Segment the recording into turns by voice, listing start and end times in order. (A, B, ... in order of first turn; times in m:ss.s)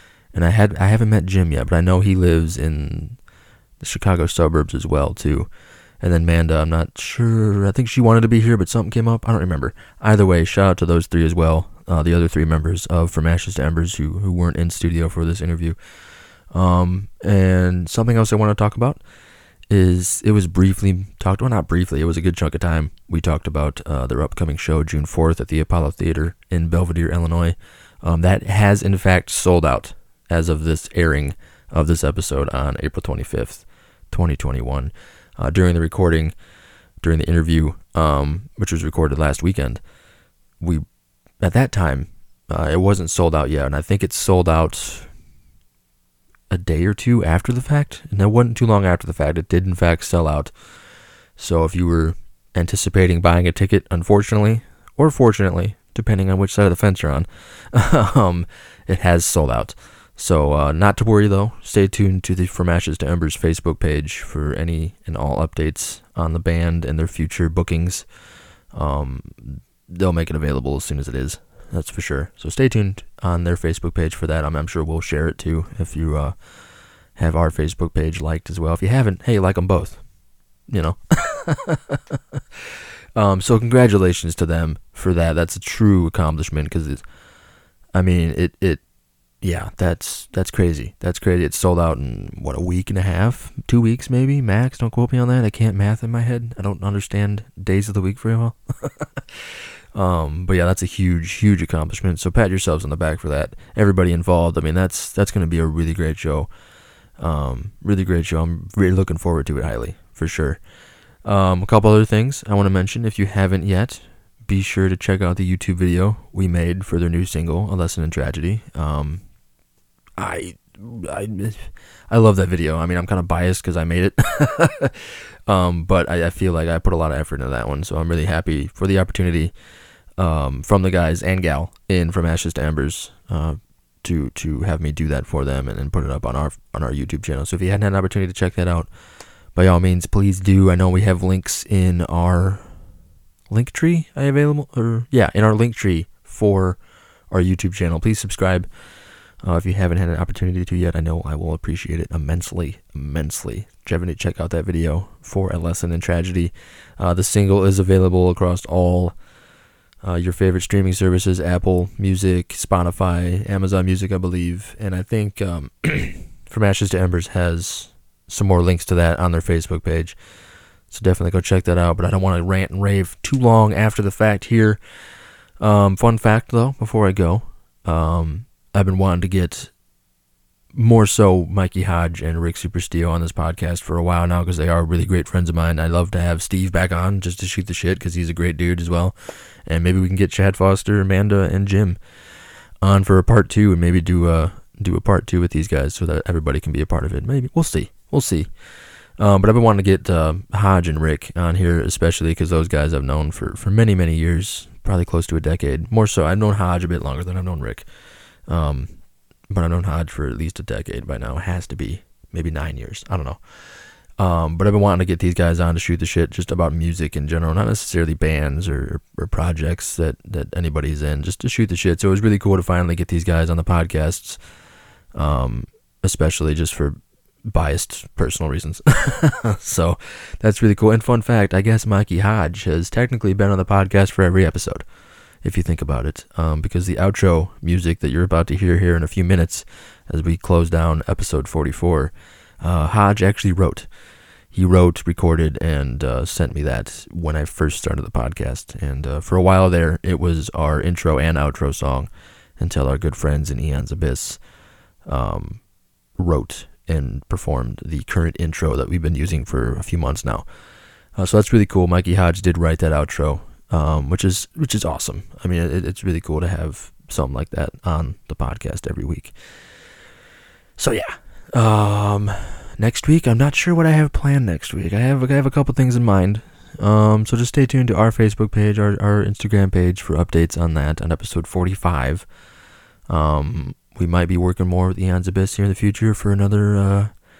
0:00.3-0:03.2 A
0:03.8-0:15.8 A
0:16.5-0:19.0 A
0:19.7-0:36.3 A
0:37.0-0:39.8 A
0:40.6-0:40.8 A
0:41.4-0:45.1 A
0:46.5-0:50.5 A
0:51.4-1:08.0 A
1:08.7-1:20.0 A
1:20.7-1:22.4 A
1:23.2-1:27.0 A
1:27.9-1:28.8 A
1:29.4-1:46.5 A
1:47.2-1:50.6 A
1:51.2-1:59.2 A
2:00.2-2:09.5 A
2:10.2-2:18.9 A
2:19.5-2:22.8 A
2:23.5-2:28.7 A
2:29.4-2:39.2 A
2:40.0-2:50.1 A
2:50.9-2:54.8 A
2:55.6-2:59.7 A
3:00.7-3:09.1 A
3:09.6-3:12.0 A
3:12.8-3:18.5 A
3:19.2-3:27.8 A
3:28.4-3:44.4 A
3:45.1-3:54.8 A
3:55.4-4:03.9 A
4:04.5-4:14.4 A
4:15.0-4:20.5 A
4:21.1-4:29.4 A
4:30.8-4:42.2 A
4:43.1-4:47.1 A